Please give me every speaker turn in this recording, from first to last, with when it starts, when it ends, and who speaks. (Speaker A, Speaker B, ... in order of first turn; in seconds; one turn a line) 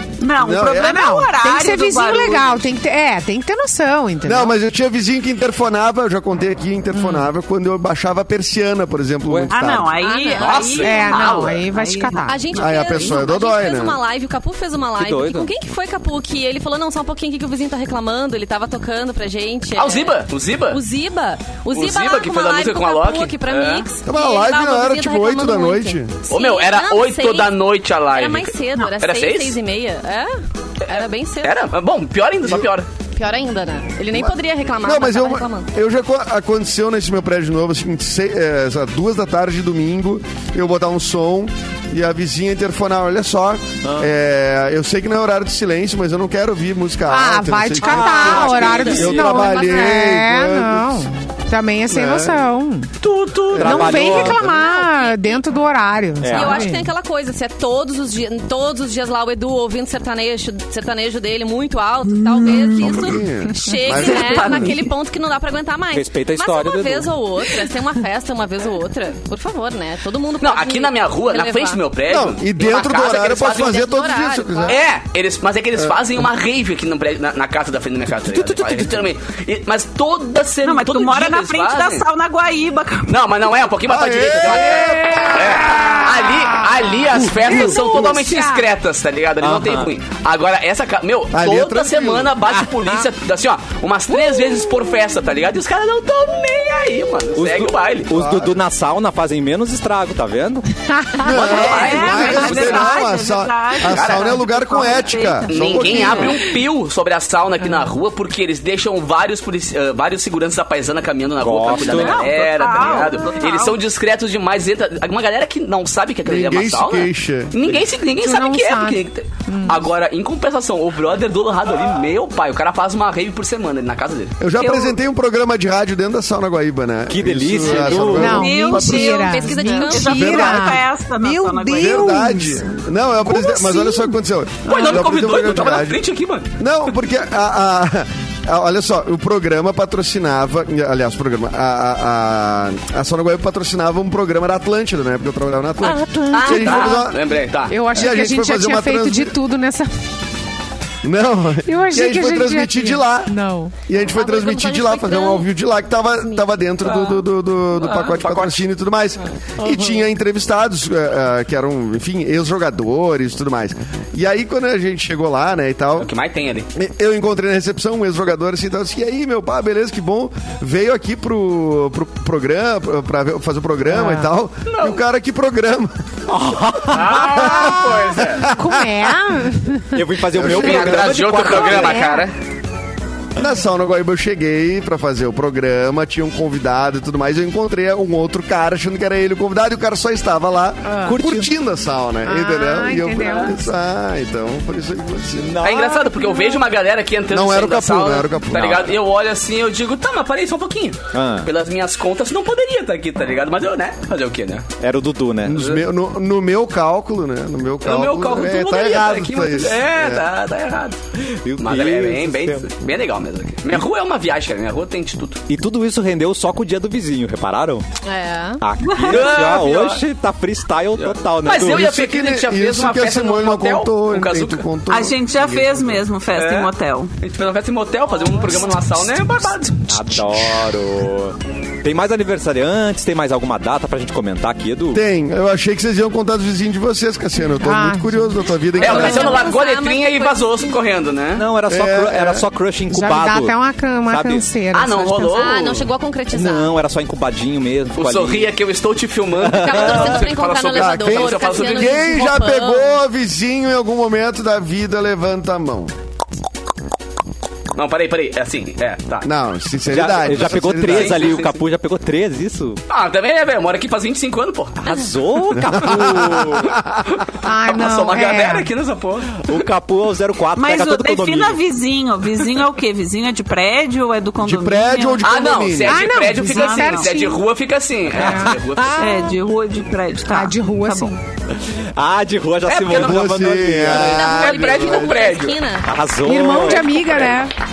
Speaker A: 0.2-2.7
Speaker B: 0.4-1.1
Speaker C: 0.7-4.5
Speaker B: 4.2-9.9
Speaker C: 6.9-7.3
Speaker D: 9.3-9.5
Speaker A: 9.5-13.1
Speaker E: 10.0-10.9
Speaker F: 10.3-11.6
Speaker C: 10.8-12.4
Speaker E: 12.2-27.5
Speaker B: 12.5-14.0
Speaker D: 14.9-15.5
Speaker F: 19.8-20.8
Speaker F: 21.7-23.9
Speaker B: 24.0-26.2
Speaker F: 26.3-29.5
Speaker E: 28.1-30.3
Speaker F: 30.8-32.9
Speaker E: 30.9-31.6
Speaker E: 33.1-35.7
Speaker B: 34.1-51.1
Speaker D: 43.8-44.1
Speaker C: 47.1-52.9
Speaker D: 47.8-49.6
Speaker E: 48.3-49.1
Speaker B: 51.9-52.5
Speaker D: 53.0-54.7
Speaker B: 53.5-54.3
Speaker C: 53.6-56.8
Speaker E: 54.4-55.4
Speaker D: 56.2-56.7
Speaker E: 56.3-71.8
Speaker A: 62.2-62.9
Speaker B: 62.6-64.8
Speaker A: 64.0-64.9
Speaker D: 65.9-67.1
Speaker F: 70.4-73.8
Speaker B: 72.1-74.8
Speaker E: 73.5-74.8
Speaker F: 74.7-82.0
Speaker A: 80.6-83.1
Speaker F: 83.0-98.1
Speaker B: 83.9-86.0
Speaker B: 87.2-88.1
Speaker A: 87.4-88.6
Speaker D: 89.4-89.9
Speaker B: 91.3-92.3
Speaker D: 92.5-93.0
Speaker D: 97.3-100.7
Speaker B: 98.1-98.5
Speaker B: 101.2-106.4
Speaker F: 101.2-103.0
Speaker A: 101.4-106.5
Speaker D: 102.0-102.3
Speaker F: 103.8-104.4
Speaker F: 105.5-124.4
Speaker D: 111.4-112.3
Speaker A: 111.7-113.8
Speaker B: 116.2-117.6
Speaker C: 118.1-119.8
Speaker B: 124.4-128.9
Speaker A: 124.6-124.9
Speaker D: 127.1-128.6
Speaker A: 128.1-132.2
Speaker C: 128.2-132.7
Speaker E: 128.7-130.4
Speaker B: 130.1-130.8
Speaker B: 131.7-136.0
Speaker C: 133.2-134.1
Speaker F: 134.7-136.5
Speaker B: 136.6-147.3
Speaker C: 145.9-146.9
Speaker E: 146.3-146.8
Speaker F: 146.3-147.8
Speaker C: 147.7-150.0
Speaker B: 147.9-149.4
Speaker B: 151.0-153.3
Speaker C: 151.6-153.7
Speaker B: 153.8-166.1
Speaker E: 154.1-155.4
Speaker F: 156.8-157.2
Speaker F: 157.8-158.6
Speaker F: 166.0-166.7
Speaker B: 166.7-175.9
Speaker C: 173.9-174.3
Speaker F: 174.7-175.0
Speaker D: 176.3-177.6
Speaker F: 176.9-178.4
Speaker B: 177.1-178.9
Speaker C: 178.4-180.0
Speaker D: 179.9-182.1
Speaker B: 180.3-181.2
Speaker F: 180.3-182.3
Speaker C: 181.5-182.3
Speaker B: 183.3-195.6
Speaker C: 190.8-191.2
Speaker D: 191.1-191.5
Speaker C: 192.2-193.7
Speaker F: 193.2-193.5
Speaker D: 195.4-196.3
Speaker F: 195.6-204.7
Speaker B: 197.3-198.9
Speaker D: 201.1-201.5
Speaker D: 204.8-205.6
Speaker B: 205.4-210.2
Speaker F: 207.8-211.0
Speaker D: 211.2-212.7
Speaker F: 211.6-215.4
Speaker D: 215.5-217.8
Speaker E: 218.0-218.6
Speaker D: 218.6-221.9
Speaker A: 218.9-219.5
Speaker F: 219.0-220.0
Speaker F: 221.0-224.6
Speaker B: 221.6-226.1
Speaker A: 224.9-227.1
Speaker F: 226.3-229.9
Speaker E: 228.2-228.6
Speaker D: 229.9-235.0
Speaker B: 234.9-239.4
Speaker C: 237.6-238.4
Speaker E: 238.8-240.8
Speaker F: 238.8-241.4
Speaker D: 241.3-244.5
Speaker B: 241.7-242.4
Speaker C: 242.9-245.5
Speaker F: 244.7-245.9
Speaker E: 245.3-246.7
Speaker D: 246.3-248.5
Speaker F: 248.0-252.1
Speaker D: 249.4-250.1
Speaker E: 249.4-253.0
Speaker B: 250.7-255.9
Speaker F: 257.7-259.3
Speaker B: 259.2-261.4
Speaker D: 259.9-262.8
Speaker F: 260.3-261.6
Speaker F: 262.9-265.0
Speaker D: 264.8-266.8
Speaker B: 265.5-267.0
Speaker F: 267.1-269.6
Speaker C: 267.4-268.7
Speaker D: 269.4-271.6
Speaker A: 270.6-275.2
Speaker B: 274.4-276.2
Speaker F: 275.2-279.3
Speaker C: 275.9-277.4
Speaker A: 276.4-277.1
Speaker D: 278.2-279.2
Speaker C: 278.2-278.6
Speaker A: 279.0-281.1
Speaker C: 280.3-281.1
Speaker D: 281.5-284.5
Speaker F: 282.6-283.2
Speaker B: 282.9-285.1
Speaker F: 283.9-285.6
Speaker E: 283.9-285.9
Speaker D: 285.8-287.4
Speaker C: 286.2-287.5